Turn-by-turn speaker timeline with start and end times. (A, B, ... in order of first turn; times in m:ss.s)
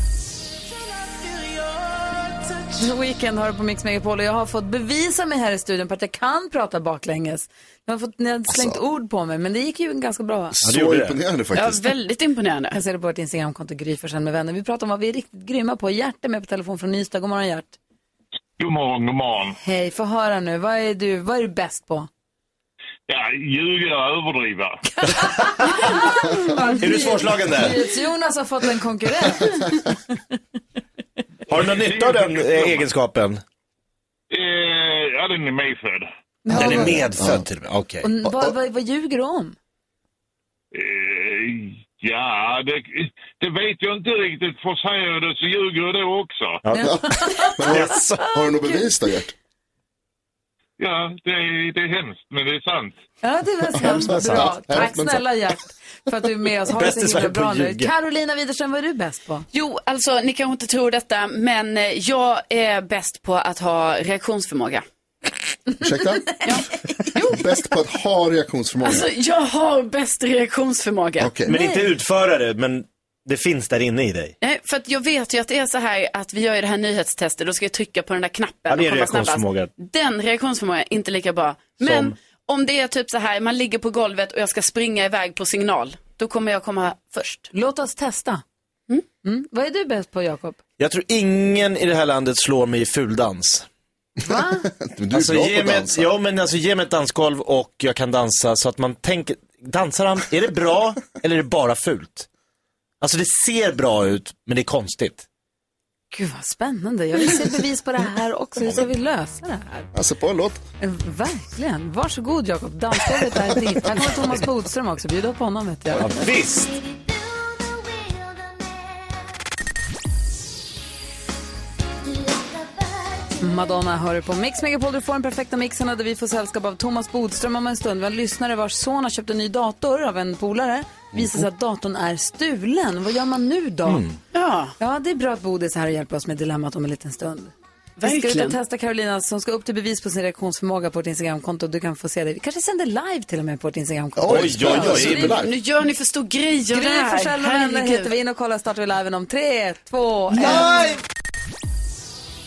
0:02.7-0:10.6 A
0:08.5-0:08.8 B
0:10.6-0:11.9 B
0:10.6-0:11.2 C
0:11.5-0:12.8 D
0:12.7-0:17.8 A
0:18.6-0:19.6 E
0:19.6-0:22.1 A
0:23.1-0:24.8 E
0:25.0-0:30.0 A
0:25.1-0:27.8 C
0:31.5-0:33.4 C
0:31.6-0:32.9 E
0:34.3-0:36.1 E
0:36.4-0:37.1 A
0:36.5-0:37.4 B
0:36.5-0:38.1 C
0:38.0-0:39.6 A
0:40.7-0:46.6 E
0:46.6-0:47.0 C
0:46.7-0:47.0 B
0:46.8-0:47.6 A
0:47.5-0:49.3 B
0:47.6-0:48.3 C
0:50.8-0:53.0 E
0:53.2-0:59.4 A
0:53.7-0:55.2 B
0:54.0-0:54.5 C
0:56.7-0:57.9 C
0:59.5-1:04.8 D
1:05.8-1:06.4 B
1:06.0-1:06.6 A
1:06.4-1:07.4 D
1:07.1-1:09.1 B
1:08.8-1:11.3 D
1:11.2-1:11.5 B
1:11.4-1:14.3 C
1:11.5-1:11.9 A
1:14.4-1:27.5 D
1:18.7-1:19.7 C
1:21.8-1:22.1 C
1:27.5-1:28.4 A
1:29.2-1:30.6 A
1:30.8-1:33.6 C
1:34.2-1:34.7 A
1:34.3-1:36.1 B
1:35.1-1:42.3 C
1:43.0-1:45.2 C
1:46.1-1:49.9 A
1:49.9-1:50.6 B
1:50.8-1:56.2 A
1:55.9-1:56.8 C
2:03.4-2:14.0 A
2:13.8-2:14.2 C
2:14.3-2:14.7 D
2:14.8-2:25.3 A
2:18.0-2:18.6 D
2:24.2-2:25.5 B
2:24.3-2:25.4 C
2:25.0-2:28.1 D
2:26.7-2:30.7 A
2:30.4-2:30.9 B
2:30.4-2:30.8 C